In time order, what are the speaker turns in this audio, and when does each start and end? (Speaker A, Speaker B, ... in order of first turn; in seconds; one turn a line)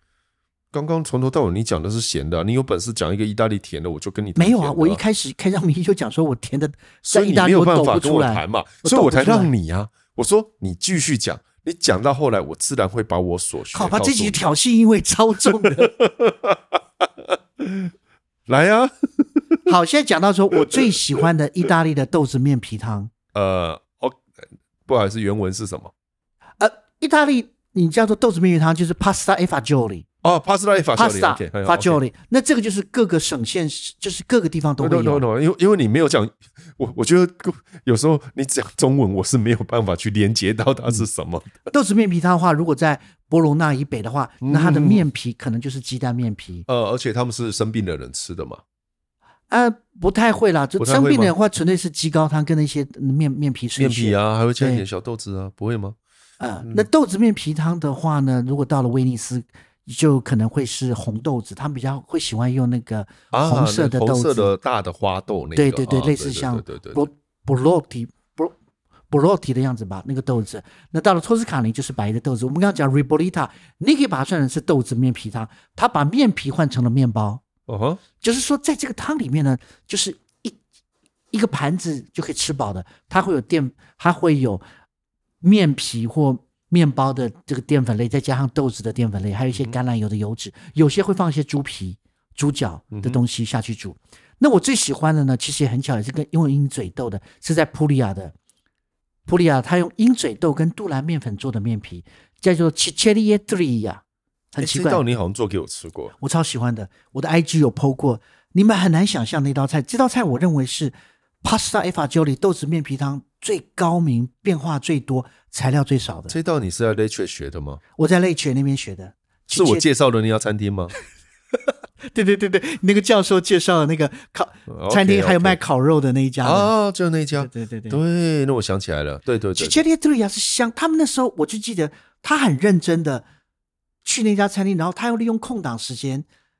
Speaker A: 0.7-5.0
Speaker B: 4.3-9.5
Speaker A: 7.0-14.4
Speaker B: 13.7-15.9
Speaker A: 15.5-17.0
Speaker A: 17.6-17.9
Speaker A: 18.5-19.6
Speaker B: 19.6-23.1
Speaker A: 23.3-24.2
Speaker A: 24.9-25.9
Speaker B: 26.6-30.1
Speaker A: 30.2-32.0
Speaker B: 30.9-35.2
Speaker A: 34.8-41.5
Speaker B: 41.7-46.6
Speaker A: 44.4-45.0
Speaker A: 46.7-48.6
Speaker B: 49.5-54.8
Speaker A: 50.8-51.3
Speaker A: 53.8-56.0
Speaker B: 56.4-64.5
Speaker A: 63.3-67.1
Speaker B: 65.5-68.5
Speaker B: 69.1-77.4
Speaker A: 77.7-78.0
Speaker B: 78.2-80.6
Speaker B: 81.3-84.6
Speaker B: 85.4-98.3
Speaker A: 92.9-93.2
Speaker B: 99.2-104.0
Speaker B: 104.5-105.0
Speaker A: 104.6-106.1
Speaker B: 106.2-116.3
Speaker A: 116.3-117.8
Speaker B: 118.0-119.8
Speaker A: 119.5-120.9
Speaker B: 122.0-126.7
Speaker A: 124.7-125.6
Speaker A: 126.4-129.8
Speaker B: 127.3-128.0
Speaker B: 129.6-133.2
Speaker B: 134.0-136.3